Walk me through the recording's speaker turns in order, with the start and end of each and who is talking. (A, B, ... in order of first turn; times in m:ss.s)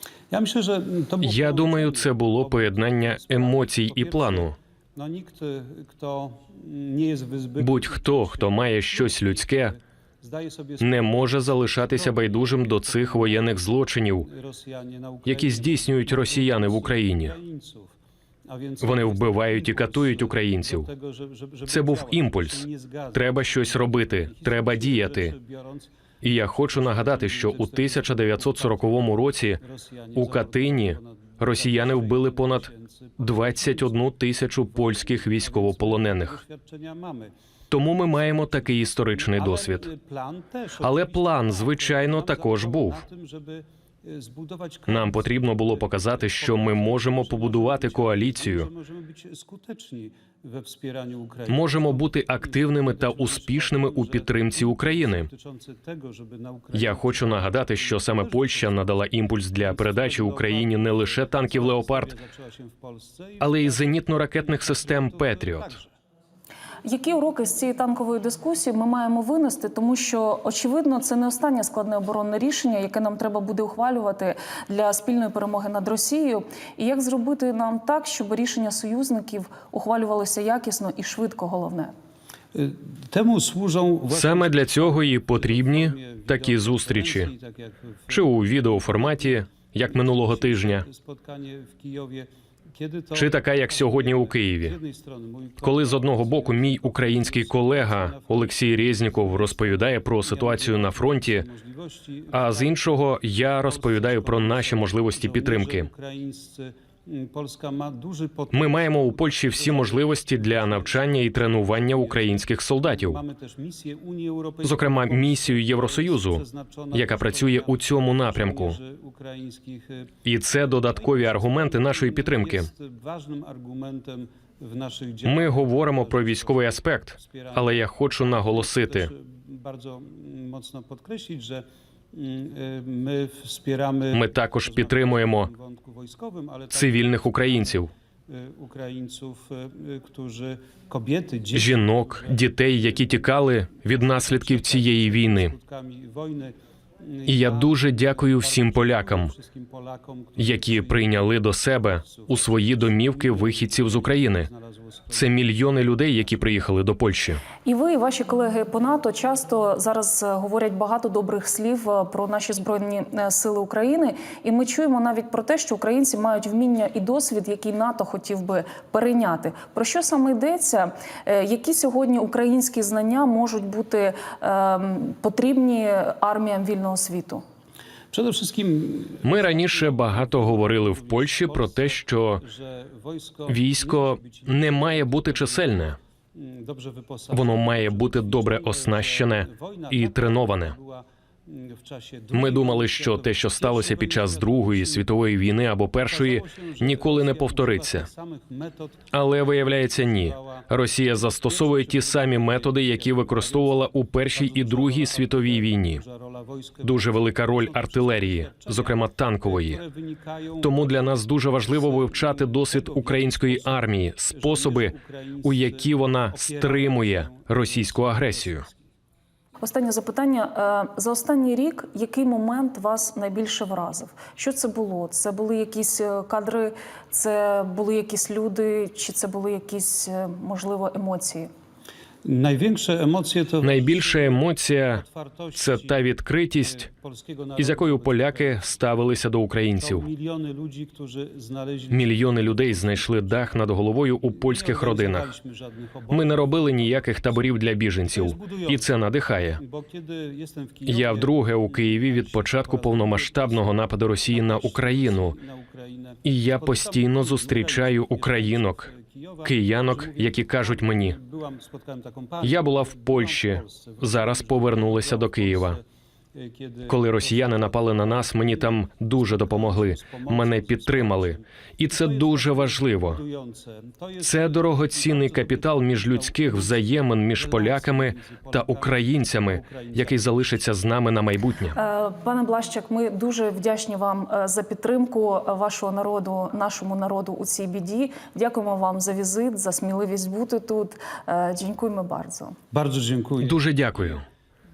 0:00.3-0:13.5 A
0:01.2-0:04.5 B
0:07.6-0:09.8 B
0:10.8-0:14.3 B
0:14.2-0:17.9 A
0:15.2-0:17.4 B
0:18.5-0:37.3 A
0:18.8-0:20.9 B
0:21.7-0:25.3 B
0:26.2-0:29.6 B
0:30.1-0:36.4 B
0:37.7-0:39.9 B
0:38.3-1:05.9 A
0:40.8-0:43.0 B
0:44.9-0:48.7 B
0:51.5-0:55.3 B
0:56.7-1:02.1 B
1:03.4-1:05.7 B
1:06.8-1:21.9 C
1:22.5-2:23.2 A
1:24.1-1:27.3 B
1:28.1-1:30.9 B
1:33.1-1:34.8 B
1:35.6-1:41.4 B
1:42.3-1:45.9 B
1:48.5-1:53.2 B
1:54.6-1:58.8 B
2:00.2-2:02.7 B
2:05.2-2:09.1 B
2:14.1-2:15.5 B
2:16.7-2:17.9 B
2:21.5-2:25.5 B
2:23.8-2:36.2 A
2:27.3-2:29.3 B
2:30.4-2:34.5 B
2:35.1-2:37.4 B
2:37.6-2:57.4 C
2:58.1-3:15.2 A
2:59.2-3:02.4 B
3:03.5-3:06.0 B
3:07.3-3:10.7 B
3:12.3-3:18.1 B
3:16.1-3:19.1 A
3:19.1-3:26.0 B
3:20.1-3:20.7 A
3:21.2-3:38.8 A
3:26.8-3:29.8 B
3:30.6-3:38.6 B
3:39.6-3:51.5 C
3:52.2-3:58.9 A
3:53.6-3:55.0 B
3:55.5-3:56.9 B
3:57.6-4:00.1 B
3:59.8-4:03.5 A
4:01.9-4:05.3 B
4:04.3-4:07.4 A
4:06.1-4:09.6 B
4:08.0-4:09.0 A
4:09.6-4:25.8 A
4:10.8-4:15.4 B
4:16.2-4:18.9 B
4:19.4-4:21.2 B
4:22.4-4:25.8 B
4:26.3-4:40.4 A
4:26.8-4:33.2 B
4:34.2-4:41.8 B
4:41.7-4:52.6 C
4:52.7-4:54.2 A
4:53.4-4:54.2 B